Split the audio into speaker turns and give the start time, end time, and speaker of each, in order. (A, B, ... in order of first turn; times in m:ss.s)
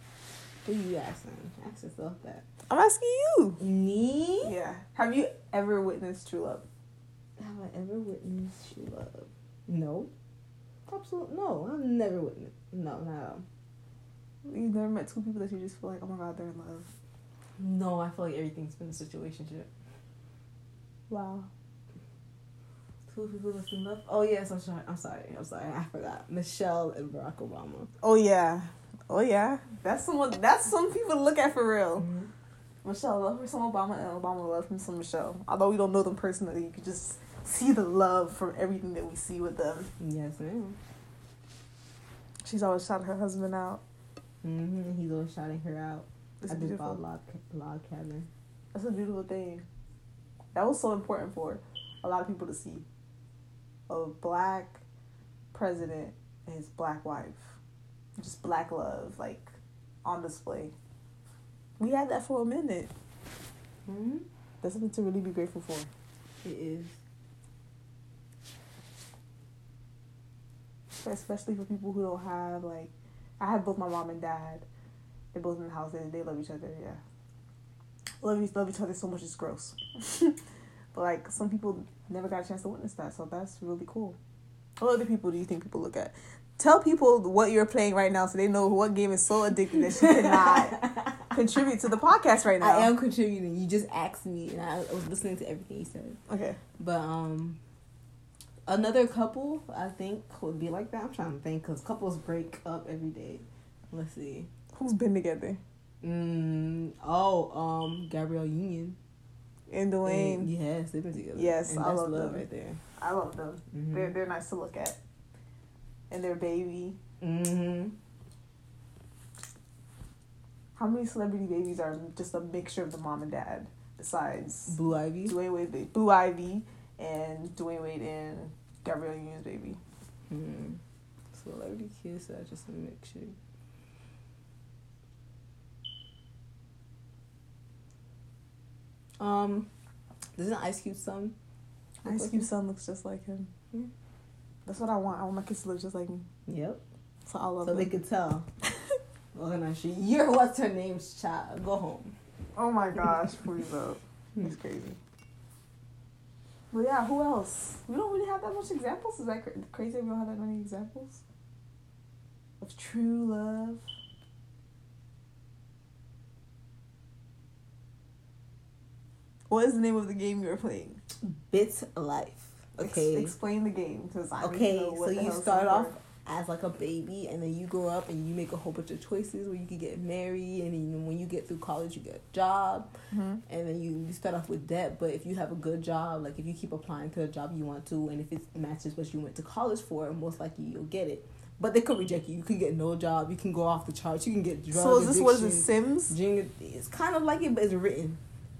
0:00.6-0:02.4 A
0:02.7-0:03.6 B
0:03.6-0:04.5 A
0:04.4-0:06.6 B
0:07.4-0:10.1 A
0:10.9-0:13.4 A
0:14.4-0:16.9 B
0:17.6-0:19.7 A
0:21.1-0:21.5 B
0:23.1-0:27.9 A
0:28.0-0:32.1 B
0:32.0-0:32.3 A
0:32.8-0:39.9 B
0:40.0-0:40.8 A
0:42.4-0:43.8 B
0:44.4-0:48.3 A
0:46.4-0:47.0 B
0:48.7-0:49.6 B
0:50.5-0:52.8 B
0:53.9-0:54.8 B
0:55.5-0:57.6 B
0:58.2-0:59.5 B
1:00.0-1:00.7 B
1:01.8-1:02.9 B
1:03.8-1:04.2 A
1:04.6-1:05.9 B
1:06.4-1:07.0 A
1:11.0-1:14.6 B
1:15.3-1:17.0 B
1:18.2-1:20.4 B
1:20.9-1:24.2 B
1:24.8-1:32.9 B
1:30.0-1:31.3 A
1:32.6-1:36.2 A
1:36.3-1:36.6 B
1:36.8-1:37.6 A
1:38.7-1:44.5 A
1:44.7-1:45.6 B
1:46.0-1:49.0 A
1:49.7-1:50.5 B
1:50.0-1:52.8 A
1:51.3-1:52.4 B
1:53.0-1:55.0 B
1:53.7-1:54.1 A
1:56.1-1:57.0 B
1:57.2-1:57.9 A
2:00.8-2:09.8 B
2:04.7-2:05.4 A
2:10.3-2:10.8 A
2:11.3-2:13.4 A
2:19.2-2:19.7 A
2:20.4-2:21.3 A
2:22.0-2:23.5 B
2:22.0-2:22.5 A
2:24.6-2:26.2 B
2:26.5-2:26.8 A
2:27.2-2:27.9 B
2:27.6-2:28.4 A
2:29.3-2:32.1 A
2:32.5-2:35.0 B
2:36.7-2:41.2 B
2:42.6-2:43.8 B
2:49.5-2:51.0 B
2:51.2-2:53.3 A
2:52.8-2:55.9 B
2:54.4-3:02.9 A
3:03.1-3:03.4 B
3:03.5-3:18.2 A
3:14.7-3:16.1 B